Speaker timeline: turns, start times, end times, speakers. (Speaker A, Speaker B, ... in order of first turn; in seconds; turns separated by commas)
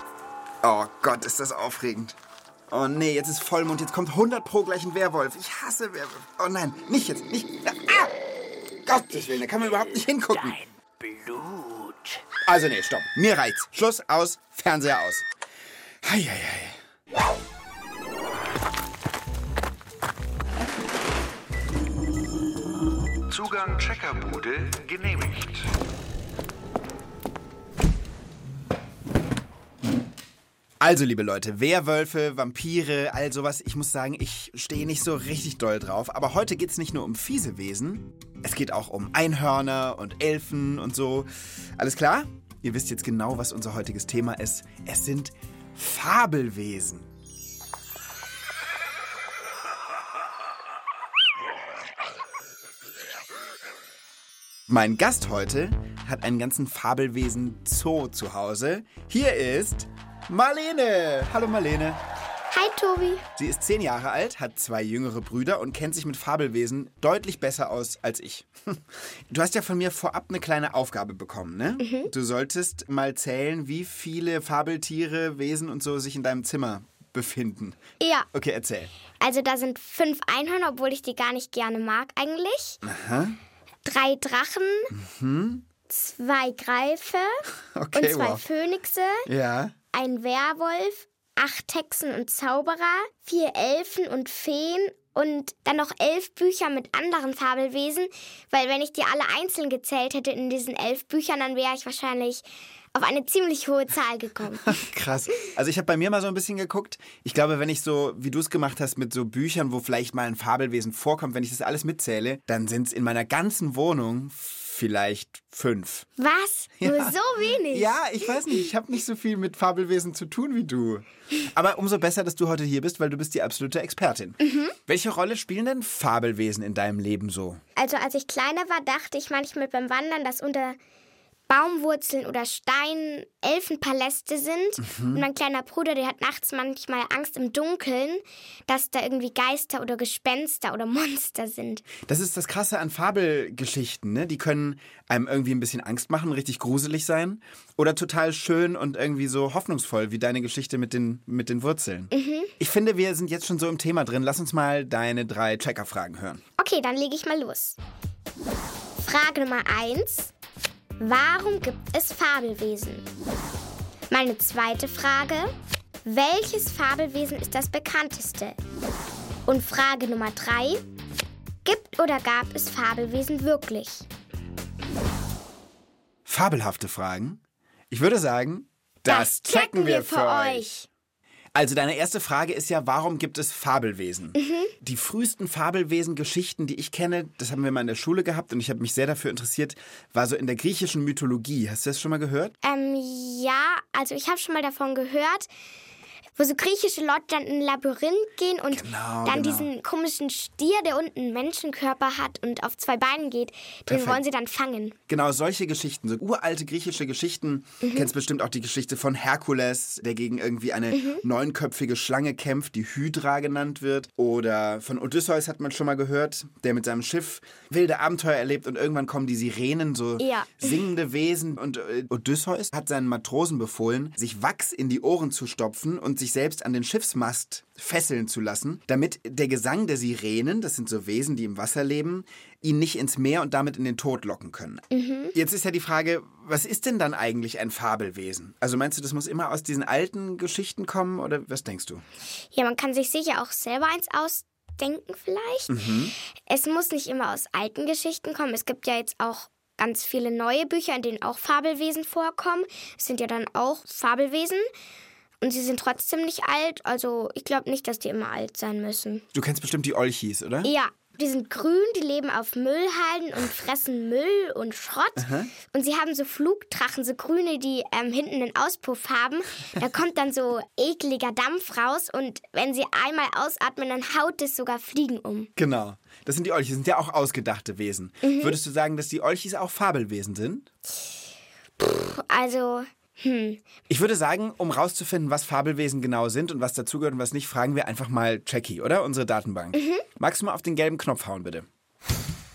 Speaker A: 0.6-2.2, Speaker A: 2.7-8.2, Speaker A: 8.8-10.6, Speaker A: 12.4-15.2, Speaker A: 16.0-16.8, Speaker A: 23.3-25.6, Speaker A: 30.8-47.1, Speaker A: 54.7-62.0, Speaker B: 62.5-63.3, Speaker A: 63.4-77.8, Speaker B: 71.8-72.1, Speaker B: 78.0-78.3, Speaker A: 78.3-78.9, Speaker B: 79.2-82.8, Speaker A: 82.8-83.4, Speaker B: 83.8-85.0, Speaker A: 84.9-85.7, Speaker B: 85.9-89.3, Speaker A: 87.8-88.4, Speaker A: 89.3-89.7, Speaker B: 89.9-104.8, Speaker A: 104.6-116.1, Speaker B: 116.2-118.3, Speaker A: 116.8-117.1, Speaker A: 117.7-127.6, Speaker B: 124.4-124.7, Speaker B: 127.8-130.8, Speaker B: 131.5-141.9, Speaker A: 134.8-135.2, Speaker A: 142.0-156.4, Speaker B: 152.1-152.5, Speaker B: 156.6-157.8, Speaker B: 159.0-160.3, Speaker B: 161.0-163.1, Speaker B: 164.1-165.5, Speaker B: 166.0-168.6, Speaker B: 169.4-170.8, Speaker B: 171.6-174.1, Speaker A: 176.2-180.8, Speaker B: 179.0-180.8, Speaker A: 181.5-192.5, Speaker B: 184.3-184.7, Speaker B: 192.6-195.5, Speaker B: 196.4-204.9, Speaker A: 198.7-199.7, Speaker A: 203.9-204.2, Speaker A: 205.1-242.0, Speaker B: 207.8-208.1, Speaker B: 210.9-211.2, Speaker B: 220.2-220.8, Speaker B: 234.9-235.3, Speaker B: 242.5-245.9, Speaker A: 245.7-246.1, Speaker B: 246.5-254.7, Speaker B: 255.4-259.2, Speaker A: 259.3-260.7, Speaker B: 260.6-275.5, Speaker A: 265.2-265.5, Speaker A: 275.6-280.7, Speaker B: 278.2-278.6, Speaker B: 281.8-283.6, Speaker A: 283.9-291.7, Speaker B: 289.7-290.1